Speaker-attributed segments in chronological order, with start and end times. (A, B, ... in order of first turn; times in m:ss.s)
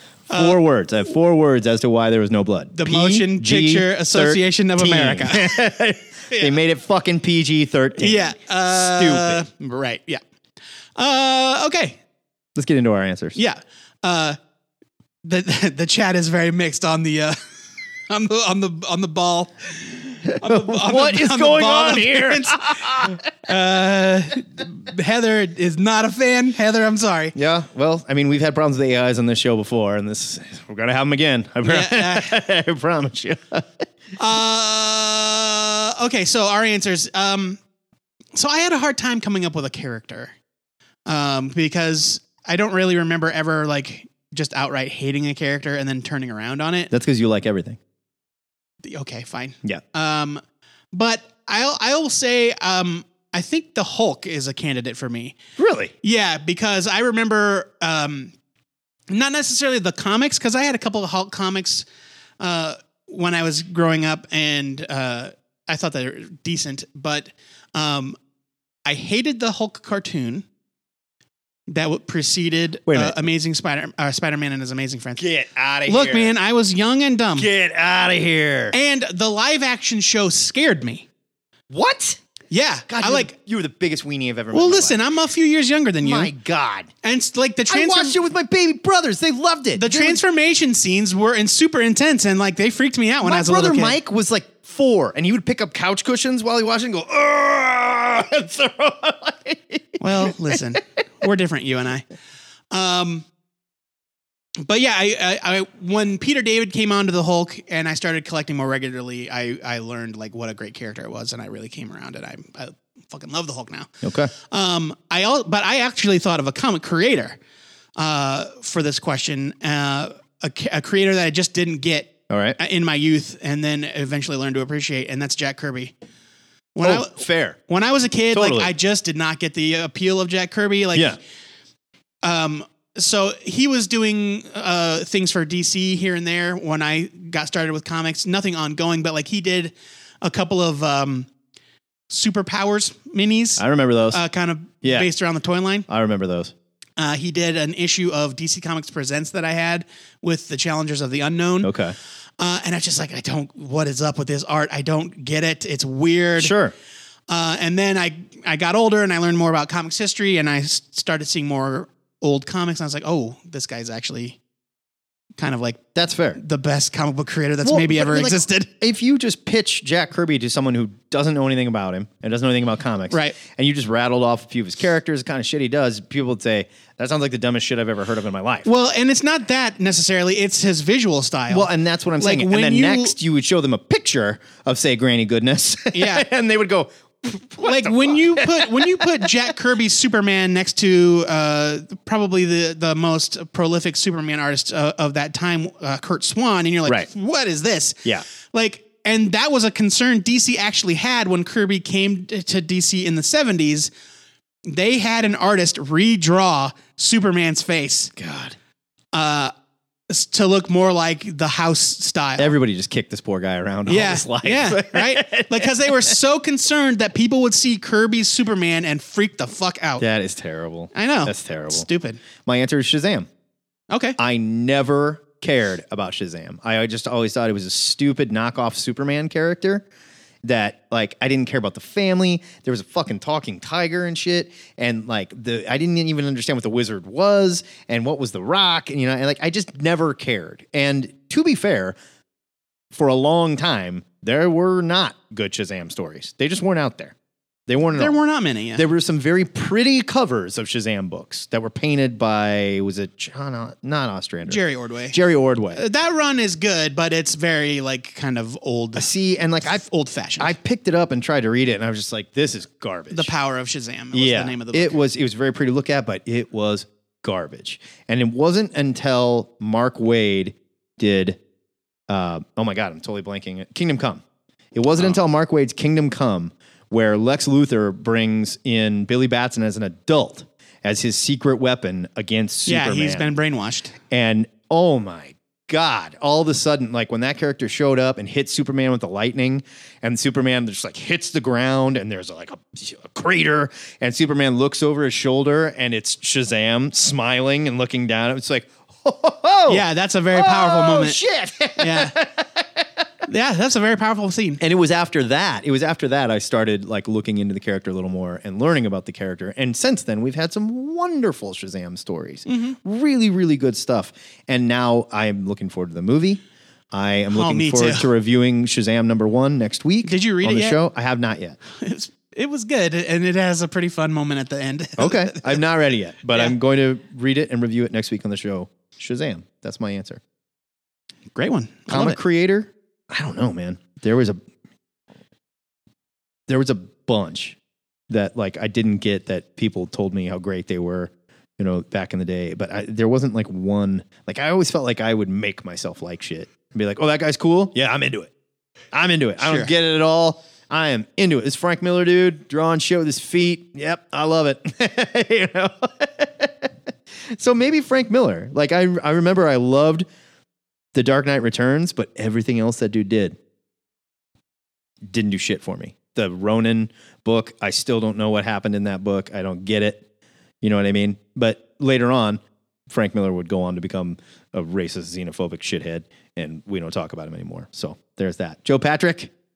0:00.3-0:00.6 A
0:00.3-0:09.4 B
0:02.8-0:05.6 A
0:06.3-0:06.6 A
0:08.0-0:10.2 A
0:11.0-0:12.0 A
0:12.6-0:13.4 B
0:13.4-0:14.4 A
0:15.2-0:17.4 A
0:18.1-0:27.4 A
0:20.4-0:23.2 B
0:27.4-0:33.8 B
0:31.6-0:32.4 A
0:34.2-0:37.6 A
0:38.3-0:40.3 A
0:41.1-0:46.9 A
0:46.9-0:47.8 B
0:48.8-0:50.4 A
0:50.9-0:55.4 A
0:55.6-0:55.9 B
0:56.0-0:58.3 A
0:59.1-1:01.8 A
1:02.4-1:08.2 A
1:08.9-1:10.4 A
1:11.7-1:15.2 A
1:12.9-1:13.2 B
1:15.2-1:16.4 B
1:15.9-1:17.5 A
1:17.4-1:18.8 B
1:18.7-1:21.1 A
1:21.7-1:22.2 B
1:22.5-1:23.3 A
1:22.9-1:25.0 B
1:24.5-1:26.3 A
1:26.0-1:26.9 B
1:27.0-1:28.2 A
1:27.7-1:30.2 B
1:29.8-1:34.0 A
1:33.2-1:40.8 B
1:40.0-1:42.0 A
1:42.7-1:43.2 A
1:44.6-1:53.9 A
1:54.0-1:54.3 B
1:54.5-1:57.4 A
1:58.0-2:05.9 A
2:02.3-2:02.6 B
2:06.8-2:11.2 A
2:06.8-2:07.6 B
2:08.3-2:08.7 B
2:12.2-2:21.3 A
2:22.1-2:25.9 A
2:23.6-2:24.2 B
2:24.8-2:25.1 B
2:25.9-2:26.5 B
2:27.0-2:31.7 A
2:31.6-2:32.0 B
2:32.4-2:36.5 A
2:36.4-2:36.7 B
2:37.3-2:44.4 A
2:45.4-2:45.8 A
2:46.0-2:46.4 B
2:46.4-2:48.7 A
2:47.6-2:58.7 B
2:53.1-2:53.4 A
2:58.7-3:03.2 A
3:01.5-3:09.3 B
3:05.9-3:06.3 A
3:07.6-3:23.9 A
3:24.7-3:28.1 A
3:28.2-3:28.6 B
3:29.1-3:29.5 A
3:30.1-3:32.5 A
3:32.4-3:36.1 B
3:33.9-3:40.0 A
3:40.0-3:41.9 B
3:40.9-3:42.2 A
3:42.4-3:43.3 B
3:43.9-3:44.2 A
3:44.2-3:49.9 B
3:50.4-4:02.0 B
4:02.9-4:07.1 B
4:07.7-4:08.2 B
4:08.0-4:08.8 A
4:08.7-4:15.8 B
4:14.5-4:15.2 A
4:15.7-4:19.1 A
4:19.0-4:19.8 B
4:19.7-4:20.5 A
4:20.4-4:23.3 B
4:23.1-4:25.0 A
4:24.1-4:31.4 B
4:32.1-4:34.2 B
4:34.7-4:43.3 B
4:42.7-4:44.0 A
4:44.1-5:02.8 B
4:59.7-5:01.2 A
5:01.8-5:02.2 A
5:03.3-5:04.6 A
5:04.6-5:16.4 B
5:12.5-5:12.8 A
5:16.9-5:21.6 B
5:17.3-5:18.1 A
5:20.0-5:20.8 A
5:21.8-5:25.6 A
5:25.0-5:30.2 B
5:31.3-5:32.2 A
5:31.9-5:34.4 B
5:36.5-5:37.6 B
5:38.1-5:48.3 B
5:48.9-5:56.7 B
5:49.4-5:49.7 A
5:57.3-6:00.1 B
6:00.9-6:03.4 B
6:05.0-6:10.1 B
6:10.6-6:19.3 B